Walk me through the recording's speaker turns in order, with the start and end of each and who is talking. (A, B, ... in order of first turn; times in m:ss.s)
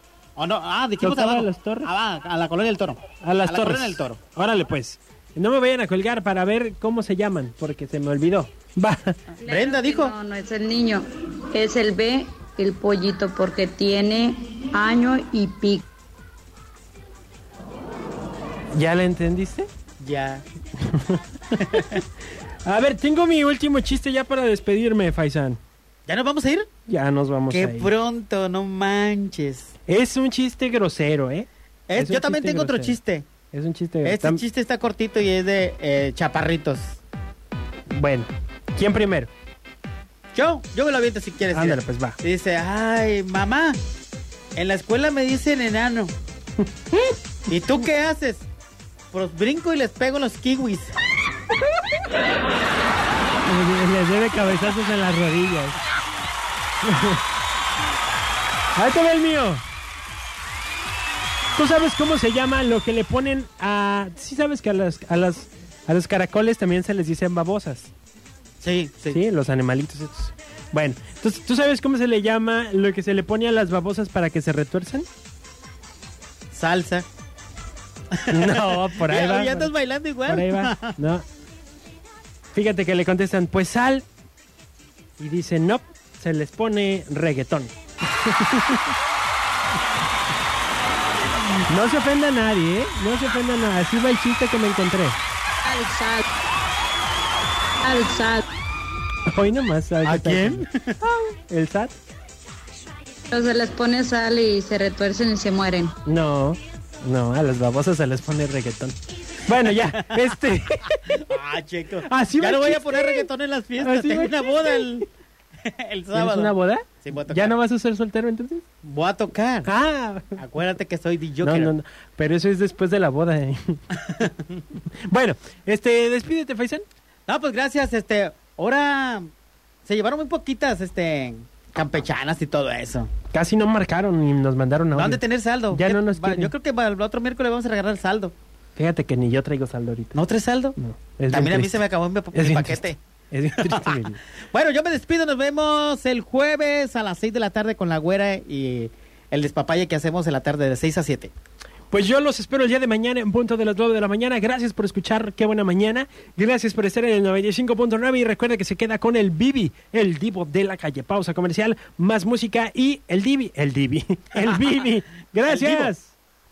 0:00.4-0:04.2 A
0:01.0-0:01.9 B
0:03.2-0:09.2 B
0:09.4-0:15.8 C
0:09.5-0:10.2 A
0:18.7-0:19.7 B
0:20.0-0:20.5 A
0:20.9-0:21.2 B
0:22.6-0:25.6 B
0:26.1-0:26.7 A
0:26.9-0:27.9 B
0:27.5-0:29.7 A
0:29.9-0:33.0 B
0:31.9-0:33.3 A
0:33.5-0:34.4 B
0:34.0-0:37.0 A
0:37.9-0:39.3 B
0:40.3-0:43.8 A
0:41.5-0:42.2 B
0:44.6-0:46.2 A
0:47.5-0:48.5 A
0:49.1-0:51.0 A
0:53.4-0:55.8 B
0:56.8-0:57.2 B
0:58.8-0:59.6 B
1:01.6-1:07.9 B
1:08.6-1:09.2 A
1:09.1-1:15.1 B
1:16.5-1:17.1 A
1:18.1-1:21.0 A
1:18.3-1:19.7 B
1:20.3-1:21.3 B
1:22.5-1:24.1 B
1:25.2-1:27.7 B
1:28.3-1:28.9 B
1:31.7-1:35.2 B
1:35.6-1:36.2 C
1:37.8-1:38.4 C
1:39.3-1:40.6 B
1:40.0-1:41.0 A
1:41.5-1:41.9 B
1:43.3-1:46.0 C
1:46.1-1:51.2 B
1:49.7-1:50.3 A
1:51.1-1:55.1 A
1:52.0-1:53.3 B
1:53.8-1:54.9 B
1:55.6-1:57.6 A
1:56.1-1:58.6 B
1:58.8-1:59.7 A
1:59.6-2:00.4 B
2:00.4-2:01.7 A
2:01.4-2:03.8 B
2:05.1-2:06.8 B
2:07.3-2:09.3 A
2:09.8-2:13.1 A
2:13.3-2:15.2 B
2:14.9-2:18.4 A
2:15.7-2:16.5 B
2:18.8-2:20.2 B
2:20.2-2:20.8 A
2:20.8-2:21.8 B
2:21.3-2:23.0 A
2:22.4-2:24.2 B
2:23.6-2:31.3 A
2:31.9-2:46.1 B
2:45.5-2:45.9 A